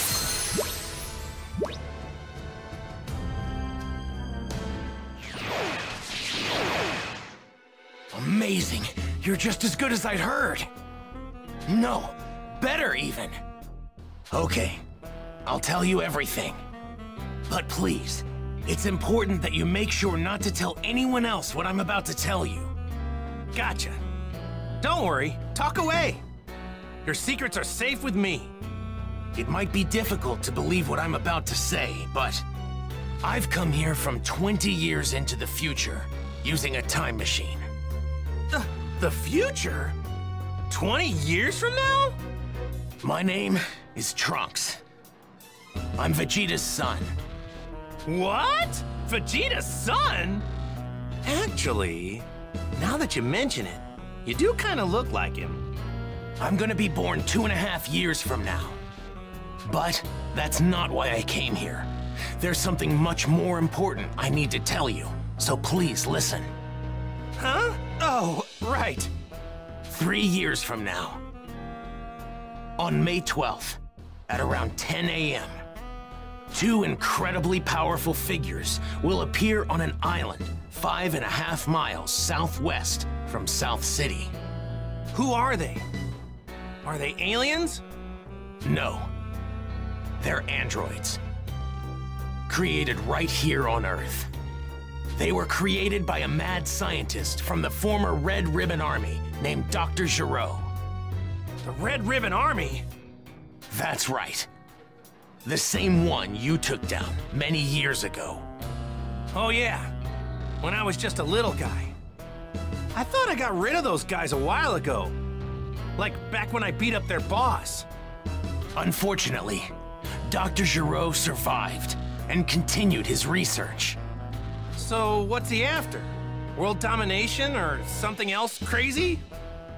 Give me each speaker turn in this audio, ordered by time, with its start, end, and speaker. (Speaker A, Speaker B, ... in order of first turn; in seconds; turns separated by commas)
Speaker A: 8.1-10.7, Speaker A: 11.7-13.4, Speaker A: 14.3-14.8, Speaker A: 15.5-16.6, Speaker A: 17.5-22.7, Speaker B: 23.5-24.0, Speaker B: 24.8-26.2, Speaker B: 27.1-28.5, Speaker A: 29.4-32.4, Speaker A: 33.2-37.7, Speaker B: 38.5-40.0, Speaker B: 40.7-42.2, Speaker A: 43.0-44.8, Speaker A: 46.0-47.1, Speaker B: 48.1-50.5, Speaker B: 51.2-55.6, Speaker A: 56.4-58.8, Speaker A: 59.6-66.5, Speaker B: 67.4-69.1, Speaker A: 69.9-71.2, Speaker A: 72.8-75.6, Speaker A: 76.5-84.3, Speaker B: 85.1-85.9, Speaker B: 86.8-87.8, Speaker A: 88.6-89.1, Speaker A: 90.2-91.2, Speaker A: 92.5-94.3, Speaker A: 95.1-100.7, Speaker B: 101.6-102.8, Speaker A: 103.7-104.5, Speaker A: 105.4-108.5, Speaker B: 109.3-109.9, Speaker B: 110.6-112.0, Speaker B: 112.9-115.2, Speaker B: 116.0-117.9, Speaker A: 118.8-119.7, Speaker A: 120.3-124.0, Speaker B: 124.8-129.2